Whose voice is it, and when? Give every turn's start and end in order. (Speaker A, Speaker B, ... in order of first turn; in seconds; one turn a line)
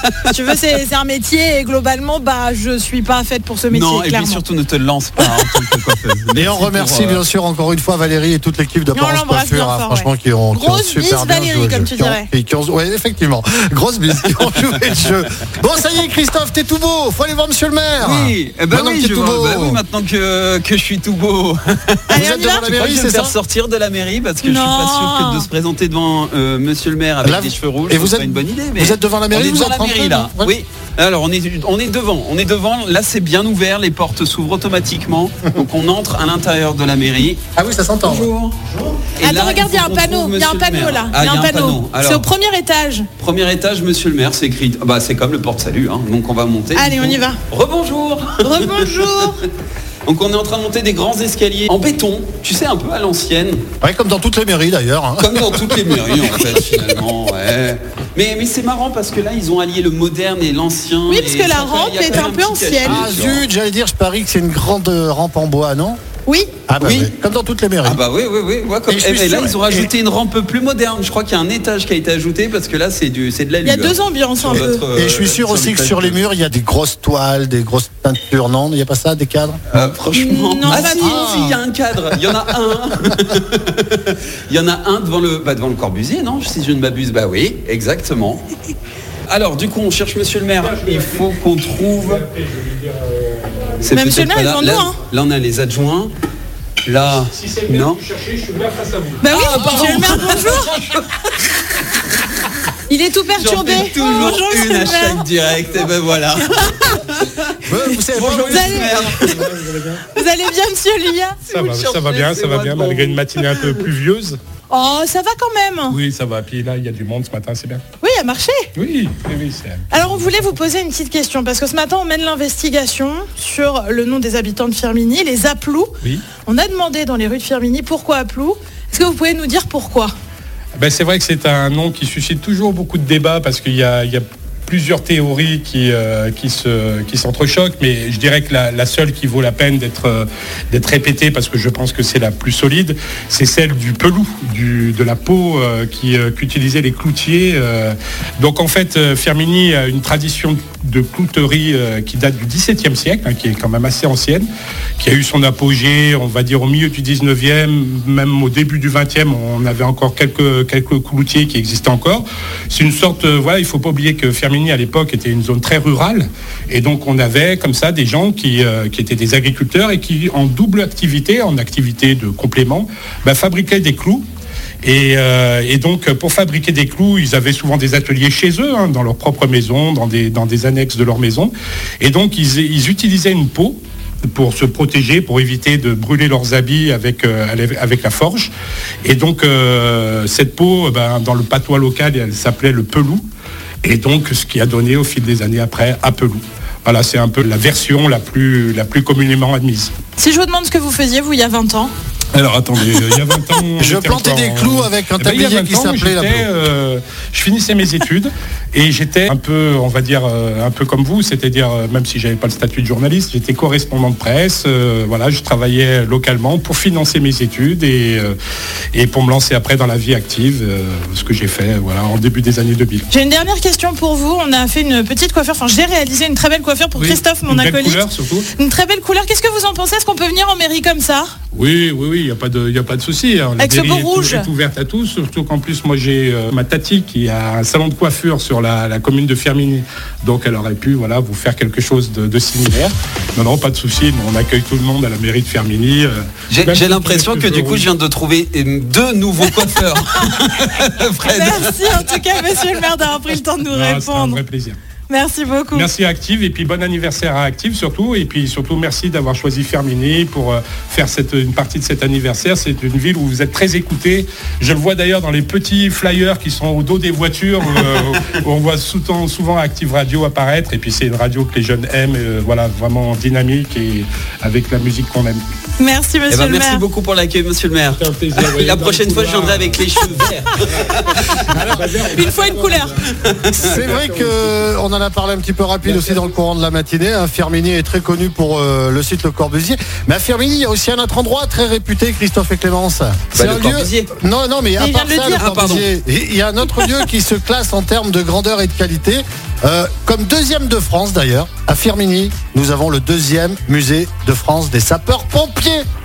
Speaker A: 0.3-4.4
Speaker B: 3.7-7.2
Speaker A: 5.2-5.4
Speaker C: 6.3-19.8
Speaker A: 8.9-12.3
Speaker B: 18.0-37.4
Speaker A: 22.1-22.6
Speaker C: 22.1-23.3
Speaker A: 24.4-25.5
Speaker C: 27.2-30.5
Speaker C: 37.5-38.3
Speaker B: 38.0-38.6
Speaker B: 39.1-42.3
Speaker A: 39.2-43.1
Speaker B: 43.2-49.3
Speaker A: 46.7-47.4
Speaker A: 48.4-49.4
Speaker B: 50.0-53.6
Speaker C: 53.8-56.6
Speaker B: 55.2-63.5
Speaker A: 61.1-63.0
Speaker C: 62.8-66.0
Speaker A: 66.2-66.5
Speaker C: 66.7-68.0
Speaker B: 66.8-67.1
Speaker B: 67.8-76.2
Speaker C: 68.9-69.9
Speaker A: 73.6-74.8
Speaker C: 74.5-79.8
Speaker B: 79.7-88.4
Speaker A: 80.1-81.3
Speaker C: 80.7-81.6
Speaker B: 89.3-92.2
Speaker D: 90.6-91.2
Speaker D: 91.9-93.9
Speaker B: 93.8-96.1
Speaker A: 93.9-94.9
Speaker B: 96.8-98.0
Speaker D: 97.1-99.3
Speaker A: 99.2-100.7
Speaker B: 99.3-100.9
Speaker A: 102.9-106.8
Speaker B: 103.4-109.7
Speaker C: 107.7-109.2
Speaker A: 108.5-109.0
Speaker D: 109.2-110.1
Speaker A: 110.1-111.4
Speaker B: 111.5-113.8
Speaker D: 111.5-114.4
Speaker A: 114.7-116.0
Speaker D: 115.9-117.8
Speaker A: 118.0-118.7
Speaker D: 118.8-120.6
Speaker A: 119.9-125.9
Speaker A: 126.4-130.1
Speaker D: 130.8-154.5
Speaker D: 155.0-174.2
Speaker D: 174.8-188.5
Speaker D: 189.0-193.2
Speaker D: 193.8-199.9
Speaker A: 200.2-201.9
Speaker D: 202.3-218.4
Speaker C: 203.8-206.5
Speaker D: 218.9-223.1
Speaker A: 223.1-231.3
Speaker D: 226.9-228.5
Speaker D: 231.5-247.9
Speaker A: 233.6-234.5
Speaker B: 246.5-252.6
Speaker A: 251.2-254.4
Speaker D: 253.7-254.8
Speaker A: 255.1-255.9
Speaker D: 255.7-275.4
Speaker A: 275.8-276.8
Speaker B: 276.3-281.5
Speaker D: 277.9-284.6
Speaker A: 281.8-283.0
Speaker B: 283.3-283.8
Speaker C: 283.6-305.9
Speaker D: 285.8-286.3
Speaker B: 293.3-294.1
Speaker A: 294.8-295.4
Speaker B: 295.4-295.9